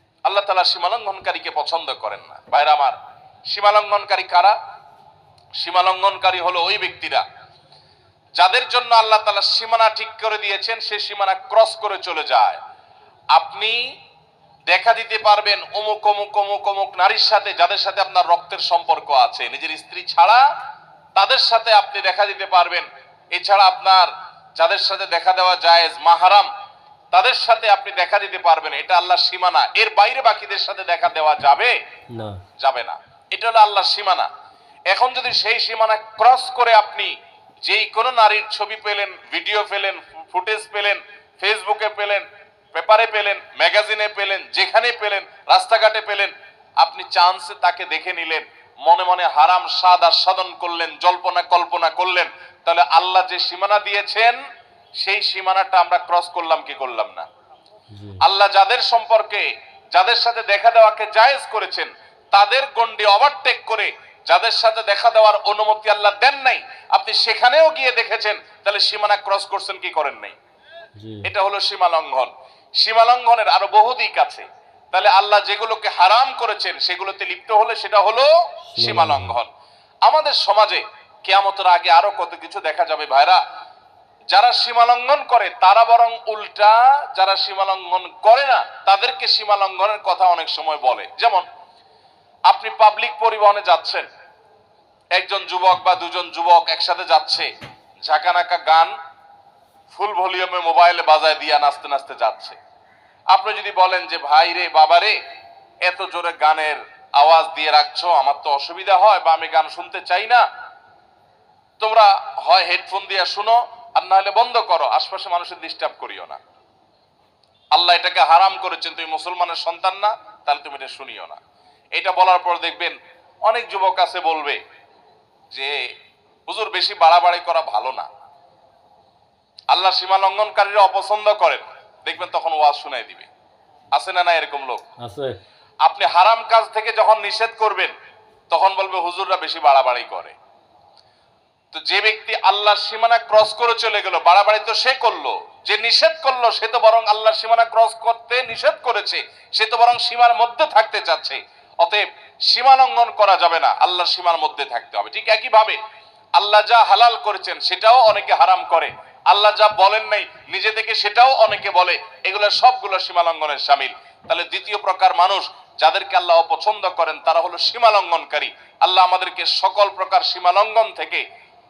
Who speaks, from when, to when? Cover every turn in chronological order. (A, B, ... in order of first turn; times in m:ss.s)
0:00.3-0:03.0 A
0:03.5-0:04.6 A
0:05.6-0:07.2 A
0:08.4-0:12.6 A
0:13.3-0:13.8 A
0:14.7-0:20.4 A
0:21.2-0:26.5 A
0:27.1-0:31.8 A
0:32.1-0:32.4 B
0:32.6-0:34.3 A
0:34.9-0:37.1 A
0:37.6-0:54.4 A
0:55.0-0:57.3 A
0:57.9-0:58.2 B
0:58.2-1:10.4 A
1:11.0-1:11.3 B
1:11.2-1:19.5 A
1:18.7-1:19.4 B
1:20.1-1:23.4 A
1:24.3-1:31.4 A
1:32.5-1:34.1 A
1:35.2-1:37.5 A
1:38.1-1:38.9 A
1:39.9-1:42.6 A
1:43.3-1:45.2 A
1:45.8-1:50.4 A
1:51.8-1:56.4 A
1:57.7-2:01.4 A
2:02.0-2:03.0 A
2:03.5-2:04.6 A
2:05.5-2:05.8 A
2:06.5-2:08.1 A
2:09.7-2:13.3 A
2:13.9-2:14.8 A
2:15.0-2:15.4 B
2:15.8-2:17.9 A
2:18.5-2:20.4 A
2:21.7-2:35.8 A
2:36.4-2:51.2 A